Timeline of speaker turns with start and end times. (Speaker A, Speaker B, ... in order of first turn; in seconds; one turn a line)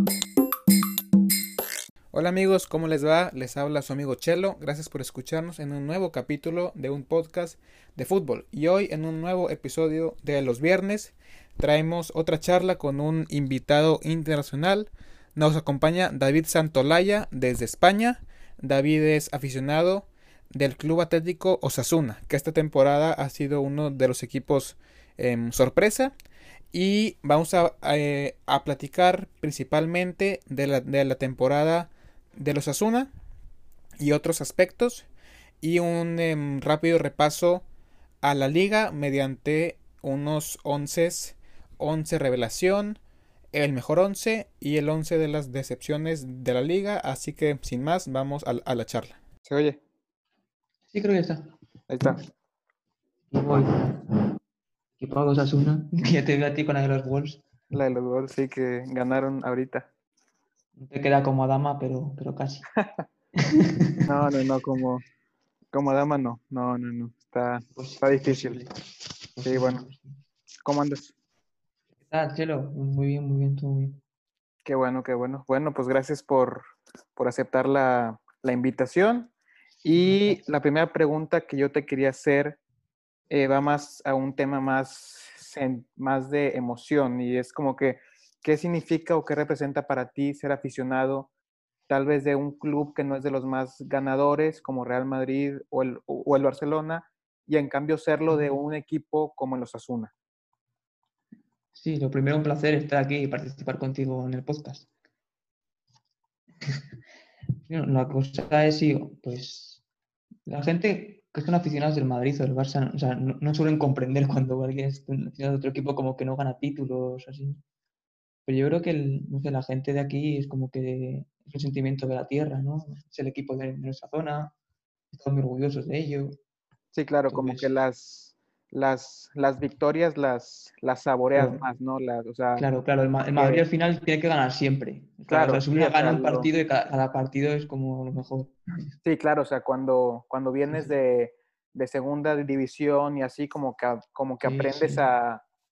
Speaker A: 2.1-26.1
Speaker A: 26.7-33.1
Speaker A: 34.0-35.1
Speaker A: 35.6-37.6
Speaker A: 38.2-43.0
Speaker A: 43.5-49.8
Speaker B: 50.9-51.5
Speaker A: 51.9-52.2
Speaker B: 53.3-54.1
Speaker B: 55.0-57.4
Speaker A: 57.7-59.9
Speaker B: 60.8-62.7
Speaker B: 63.4-64.1
Speaker A: 64.0-65.0
Speaker A: 65.7-68.6
Speaker B: 67.7-68.7
Speaker B: 69.3-70.2
Speaker A: 69.4-69.8
Speaker A: 70.6-71.1
Speaker B: 72.0-74.0
Speaker A: 74.6-79.3
Speaker A: 79.8-82.6
Speaker B: 80.0-80.4
Speaker A: 83.3-91.3
Speaker A: 91.9-100.1
Speaker B: 101.7-104.9
Speaker B: 107.7-109.8
Speaker B: 110.5-117.6
Speaker B: 118.5-124.5
Speaker B: 125.1-126.4
Speaker A: 126.9-132.7
Speaker B: 127.3-127.7
Speaker B: 131.3-131.6
Speaker B: 132.6-138.6
Speaker A: 133.3-133.6
Speaker A: 135.3-136.5
Speaker A: 139.0-145.4
Speaker B: 144.4-145.1